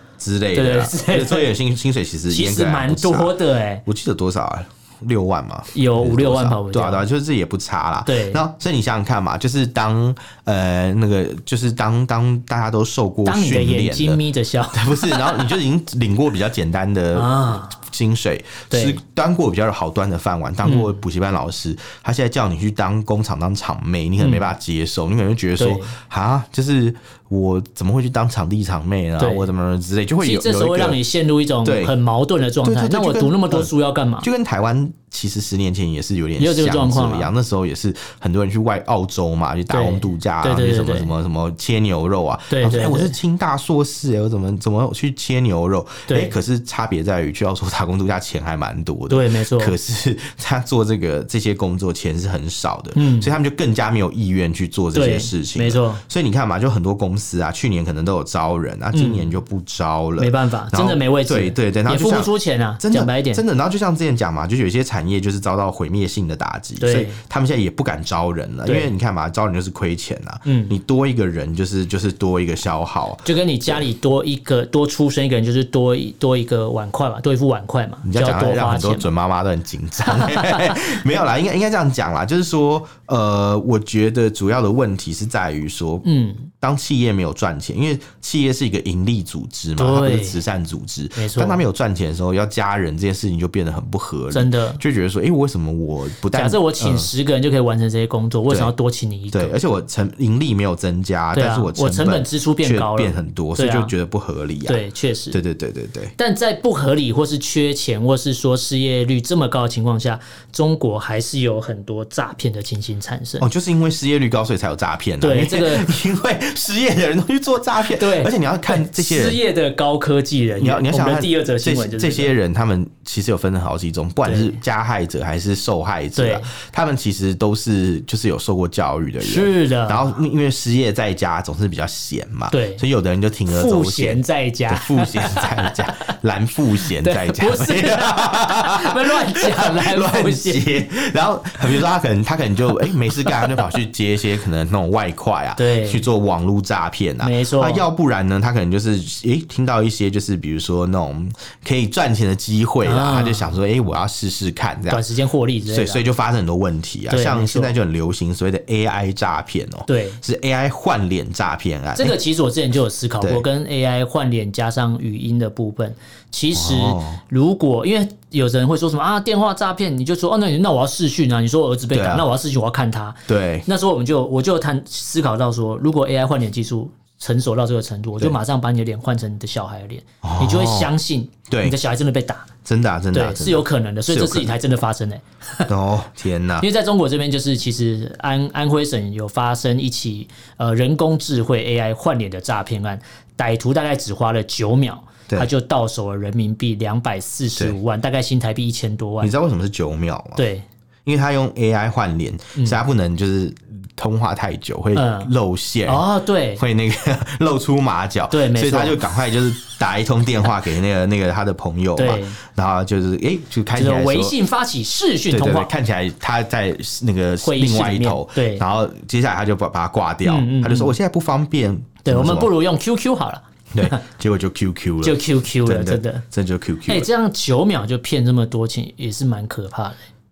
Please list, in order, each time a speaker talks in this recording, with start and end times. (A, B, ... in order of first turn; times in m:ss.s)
0:00.2-0:03.3 A
0:00.5-0:01.5 B
0:02.3-0:03.8 B
0:03.8-0:14.2 A
0:05.7-0:07.0 B
0:08.0-0:08.4 B
0:13.2-0:15.5 B
0:14.7-0:31.0 A
0:17.1-0:17.8 B
0:18.7-0:19.0 B
0:20.6-0:21.0 B
0:24.2-0:24.5 B
0:25.6-0:25.9 B
0:29.2-0:29.5 B
0:30.2-0:34.3 B
0:31.6-0:31.9 A
0:32.6-0:33.7 A
0:34.2-1:13.8 A
0:36.4-0:37.3 B
0:39.7-0:41.1 B
0:42.5-0:43.1 B
0:46.1-0:46.3 B
0:49.1-0:49.8 B
0:52.9-0:53.3 B
0:54.9-0:56.0 B
0:58.9-0:59.3 B
1:00.2-1:03.4 B
1:06.8-1:07.2 B
1:08.6-1:08.9 B
1:10.4-1:10.7 B
1:13.2-1:19.1 B
1:18.0-1:37.1 A
1:20.1-1:20.8 B
1:26.0-1:26.5 B
1:29.8-1:30.4 B
1:31.2-1:31.6 B
1:34.3-1:34.8 B
1:36.3-1:39.6 B
1:39.3-1:44.8 A
1:41.3-1:43.9 B
1:44.6-1:45.4 B
1:45.3-1:46.1 A
1:46.2-1:53.5 B
1:53.4-1:59.4 A
1:55.2-1:55.9 B
1:57.9-2:02.3 B
2:00.6-2:35.0 A
2:04.2-2:04.6 B
2:06.2-2:06.5 B
2:09.2-2:10.1 B
2:12.5-2:12.8 B
2:13.5-2:16.0 B
2:17.0-2:20.8 B
2:25.6-2:26.0 B
2:27.2-2:27.8 B
2:32.8-2:33.5 B
2:34.9-2:36.0 B
2:35.7-2:42.2 A
2:37.1-2:37.7 B
2:39.9-2:40.2 B
2:42.0-3:02.5 B
2:46.5-2:47.2 A
2:51.9-2:52.3 A
2:53.3-2:53.7 A
3:00.2-3:00.9 A
3:01.5-3:01.8 A
3:02.6-3:04.5 A
3:03.1-3:05.7 B
3:05.7-3:06.7 A
3:06.6-3:19.3 B
3:19.2-3:20.4 A
3:20.4-3:20.6 B
3:21.0-3:26.0 A
3:24.9-3:25.3 B
3:25.8-3:26.6 B
3:26.6-3:34.4 A
3:28.3-3:29.0 B
3:32.0-3:32.4 B
3:33.7-3:35.7 B
3:35.3-3:42.5 A
3:37.4-3:38.6 B
3:40.2-3:40.9 B
3:42.0-3:44.0 B
3:43.7-3:47.1 A
3:45.0-3:46.2 B
3:46.9-3:50.0 B